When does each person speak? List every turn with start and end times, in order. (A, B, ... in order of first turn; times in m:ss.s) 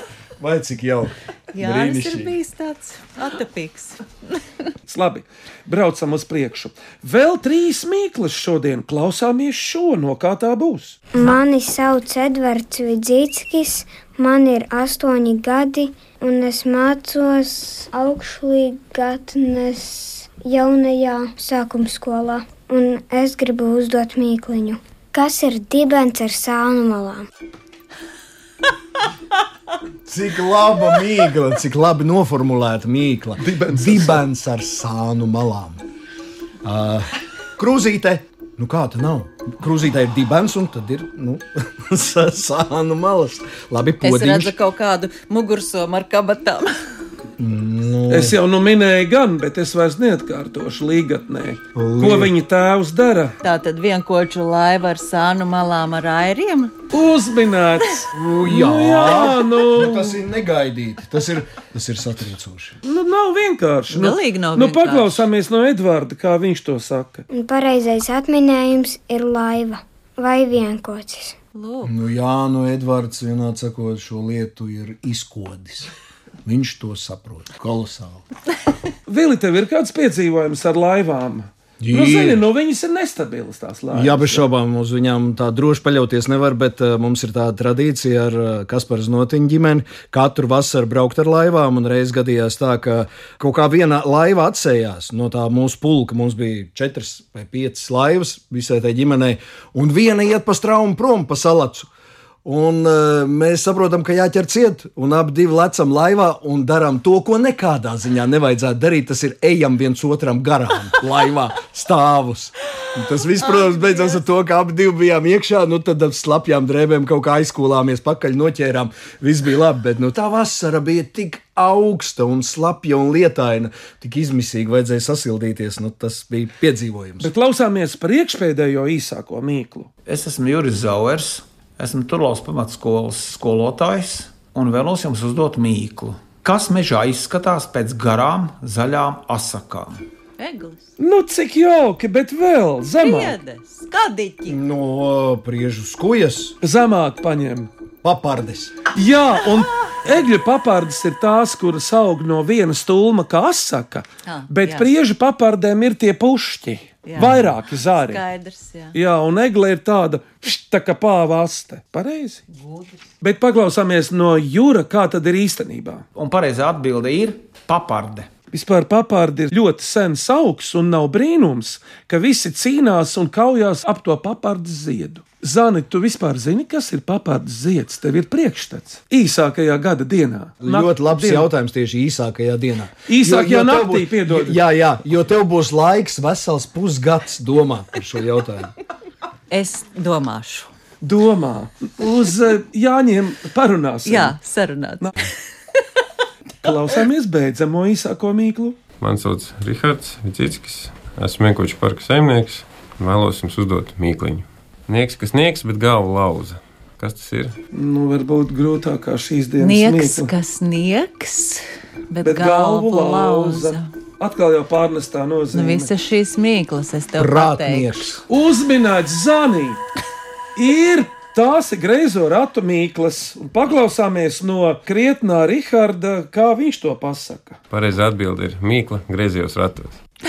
0:00.4-0:02.3 A
0:01.5-0:04.0 B
0:04.9-0:11.0 C
0:11.1-0:27.2 D
0:30.0-0:35.8 A
0:33.4-0:34.2 C
0:36.6-0:44.5 A
0:44.0-0:46.7 B
0:47.4-0:48.4 A
0:48.1-0:53.4 C
0:51.7-0:52.3 A
0:53.4-0:56.7 B
0:56.9-1:00.2 C
0:58.1-1:02.8 A
1:02.8-1:07.2 C
1:03.9-1:05.3 B
1:07.3-1:11.4 D
1:11.5-1:11.9 B
1:11.8-1:15.9 A
1:16.4-1:18.2 A
1:19.1-1:24.5 C
1:21.8-1:22.4 A
1:23.9-1:41.9 A
1:42.4-2:07.3 A
2:07.2-2:09.9 C
2:10.0-2:20.0 E
2:20.4-2:20.9 B
2:21.0-2:23.4 C
2:23.0-2:24.6 B
2:24.5-2:26.5 A
2:26.6-2:27.7 C
2:28.0-2:28.8 A
2:28.9-2:38.2 C
2:34.2-2:34.9 B
2:37.0-2:39.0 B
2:38.9-2:42.4 C
2:42.6-2:42.9 B
2:43.2-2:46.0 C
2:46.1-2:48.3 E
2:48.5-3:01.5 C
3:00.6-3:08.7 A
3:03.1-3:04.6 C
3:09.5-3:10.7 B
3:11.0-3:14.4 C
3:14.0-3:15.1 B
3:16.6-3:18.8 C
3:19.0-3:27.5 F
3:27.7-3:30.3 C
3:29.6-3:33.9 B
3:32.2-3:35.9 C
3:35.5-3:38.1 B
3:37.2-3:38.2 A
3:38.3-3:39.8 C
3:40.6-3:47.6 C
3:47.7-3:50.0 F